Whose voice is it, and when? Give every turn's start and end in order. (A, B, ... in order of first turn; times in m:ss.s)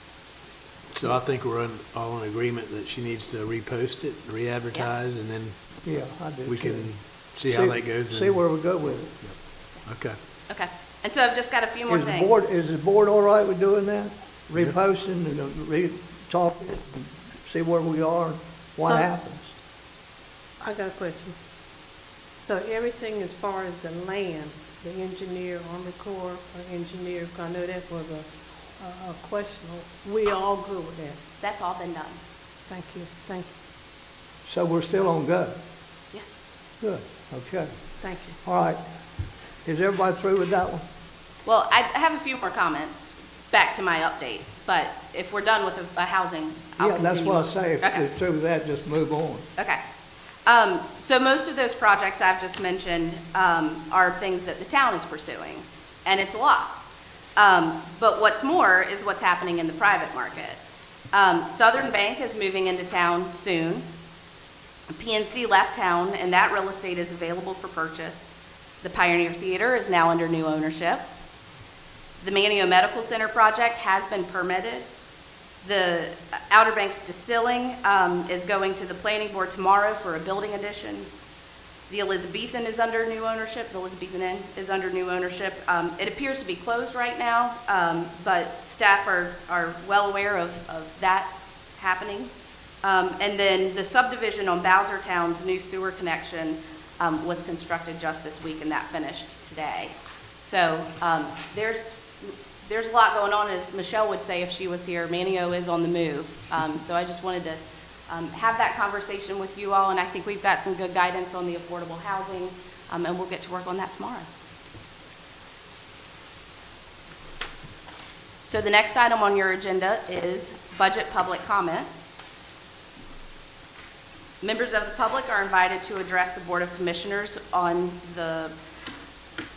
0:01.0-0:05.6 A
0:05.8-0:09.2 B
0:06.4-0:08.5 A
0:09.2-0:10.2 A
0:10.5-0:12.5 C
0:11.9-0:19.5 B
0:18.8-0:19.1 D
0:20.6-0:21.4 D
0:22.4-0:31.2 D
0:31.4-0:32.2 C
0:32.7-0:33.5 D
0:34.5-0:35.6 B
0:36.1-0:36.4 C
0:36.8-0:37.7 B
0:38.0-0:38.4 D
0:38.4-0:38.8 B
0:39.6-0:40.8 B
0:41.4-0:48.1 C
0:46.8-0:49.4 B
0:50.5-0:56.8 C
0:57.4-1:00.6 C
1:01.1-1:03.9 C
1:04.9-1:08.3 C
1:08.8-1:11.0 C
1:12.2-1:14.9 C
1:15.6-1:21.1 C
1:21.9-1:32.3 C
1:32.8-1:54.3 C
1:58.4-2:01.9 C
2:04.4-2:08.6 C